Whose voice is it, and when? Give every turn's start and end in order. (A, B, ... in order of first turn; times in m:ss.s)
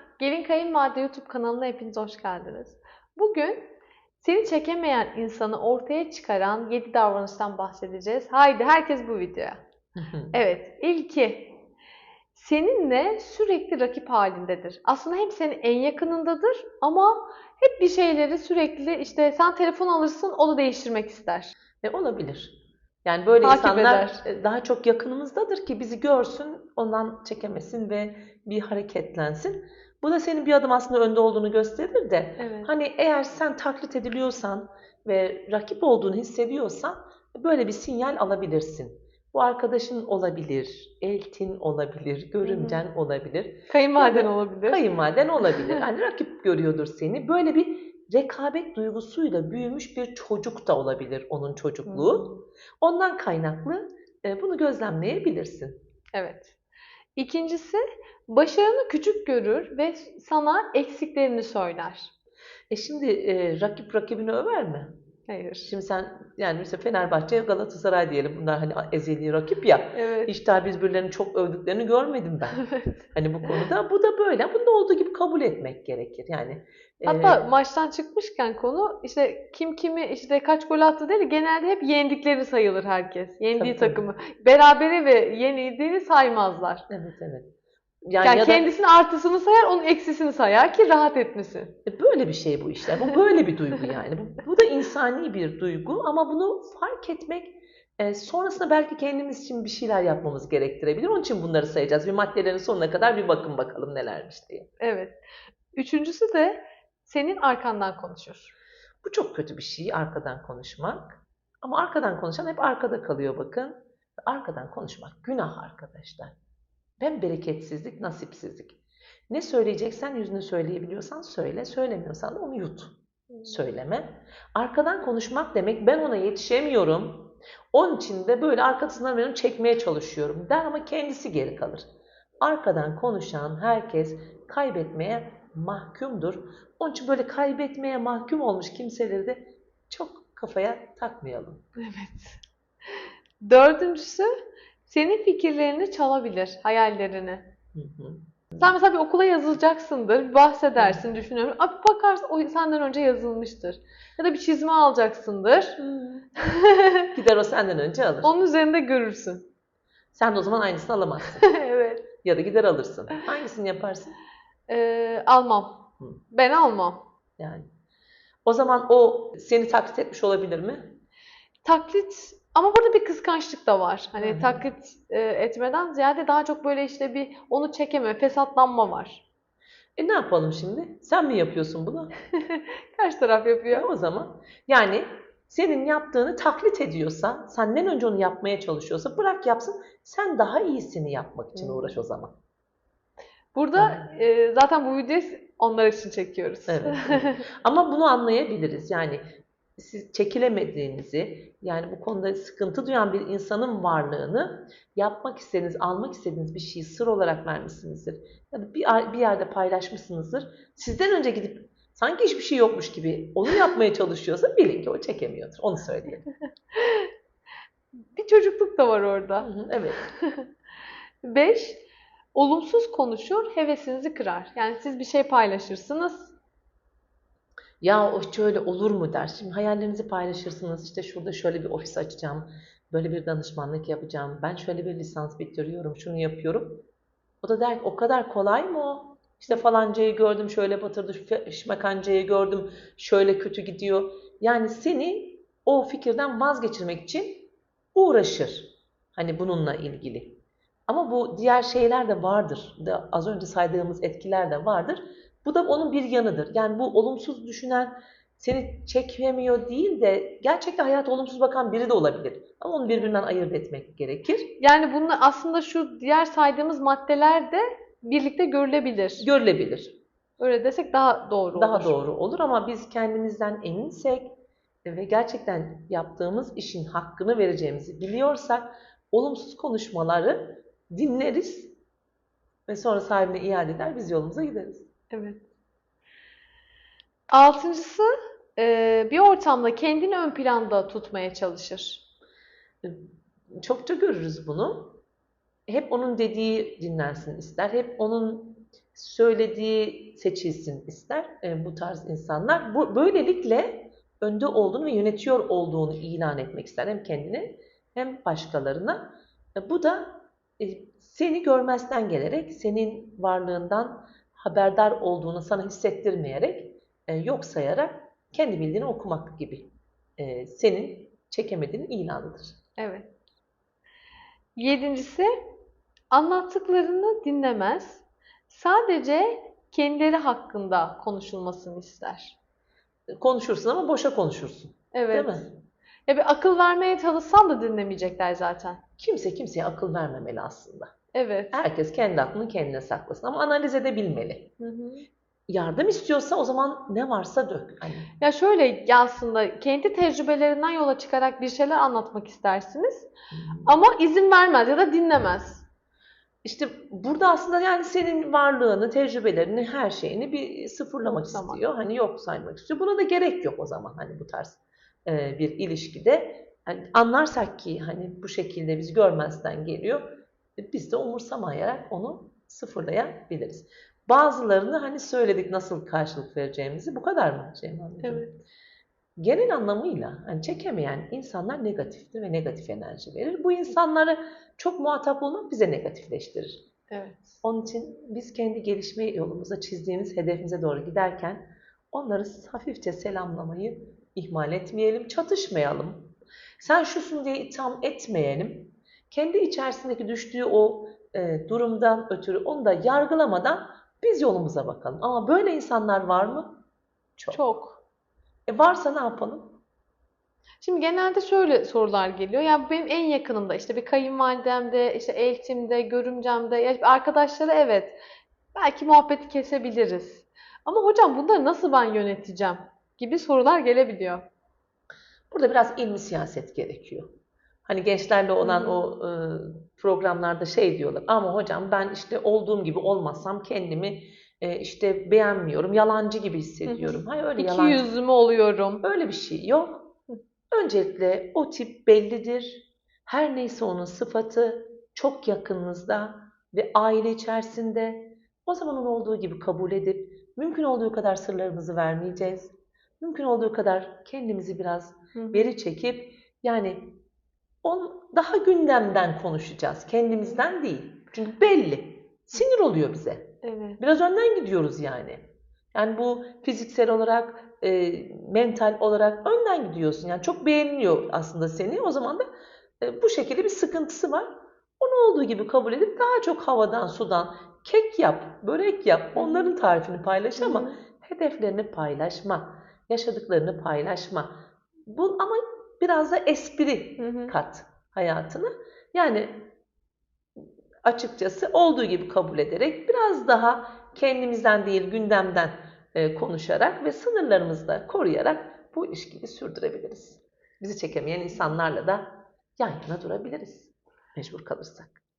0:00.2-0:09.6 A
0:10.0-0:10.4 B
0:10.3-0:11.6 A
0:12.3-0:21.5 A
0:21.8-0:52.3 B
0:23.4-0:24.2 A
0:32.4-0:32.7 A
0:42.4-0:42.8 A
0:43.7-0:44.8 A
0:45.4-0:45.8 A
0:51.8-0:52.4 A
0:52.8-0:55.8 B
0:56.1-0:56.5 A
0:57.2-1:02.1 A
1:02.7-1:04.9 B
1:05.3-1:05.7 A
1:05.7-1:12.6 B
1:09.9-1:10.3 A
1:13.1-1:17.4 B
1:17.0-1:26.8 A
1:23.5-1:24.1 B
1:26.9-1:27.5 B
1:28.0-1:28.7 B
1:28.2-1:31.8 A
1:31.8-1:44.7 B
1:44.8-1:45.2 A
1:45.7-1:48.5 A
1:49.0-1:56.3 B
1:57.0-2:11.8 B
2:12.4-2:21.6 B
2:21.8-2:22.4 A
2:23.4-2:24.3 A
2:24.9-2:27.5 A
2:27.7-2:28.7 B
2:28.6-2:35.8 A
2:35.8-2:36.3 B
2:36.4-2:37.1 A
2:37.1-2:38.3 B
2:38.2-2:39.4 A
2:40.1-2:41.5 B
2:41.4-2:42.1 A
2:42.2-2:44.2 B
2:44.7-2:47.0 A
2:47.4-2:47.7 B
2:48.4-2:51.0 B
2:51.6-2:59.2 A
2:54.2-2:54.6 B
3:00.0-3:02.2 B
3:02.3-3:03.9 A
3:03.7-3:12.4 B
3:11.6-3:11.8 A
3:13.5-3:17.4 A
3:13.7-3:14.1 B
3:16.7-3:19.2 B
3:19.8-3:36.3 B
3:36.7-3:37.1 A
3:38.1-3:39.5 A
3:39.4-3:40.0 B
3:40.1-3:40.5 A
3:41.2-3:41.8 A
3:42.3-3:46.3 A
3:47.8-3:56.8 B
3:57.4-4:24.5 B
4:22.9-4:23.1 A
4:24.6-4:29.3 A
4:29.2-4:30.0 B
4:30.4-4:31.9 A
4:31.5-4:41.8 B
4:42.7-4:44.9 B
4:45.1-4:45.4 A
4:47.3-4:52.0 A
4:52.8-4:55.0 B
4:55.7-5:22.5 B
5:22.8-5:23.1 A
5:24.6-5:25.4 A
5:26.1-5:32.3 A
5:33.2-5:35.5 B
5:34.9-5:35.5 A
5:36.1-5:38.8 A
5:39.0-5:40.9 B
5:41.1-5:41.6 A
5:41.5-5:44.5 B
5:44.6-5:45.1 A
5:45.5-5:48.1 B
5:48.2-5:53.1 A
5:53.3-5:53.7 B
5:53.6-5:55.6 A
5:56.4-6:10.0 B
6:01.3-6:01.6 A
6:10.6-6:18.3 B
6:18.0-6:18.4 A
6:19.2-6:26.6 B
6:26.9-6:27.3 A
6:27.4-6:46.6 B
6:47.2-6:47.4 B
6:47.3-6:47.8 A
6:48.5-6:49.6 B
6:50.6-6:58.0 A
6:58.5-7:04.2 A
7:05.3-7:07.1 B
7:07.6-7:17.9 B
7:08.4-7:08.8 A
7:16.6-7:18.8 A
7:18.8-7:20.0 B
7:20.5-7:37.0 B
7:35.1-7:35.5 A
7:37.6-7:52.2 B
7:43.4-7:43.8 A
7:52.8-8:09.5 B
7:59.2-7:59.5 A
8:00.4-8:00.8 A
8:07.0-8:07.3 A
8:10.4-8:25.0 B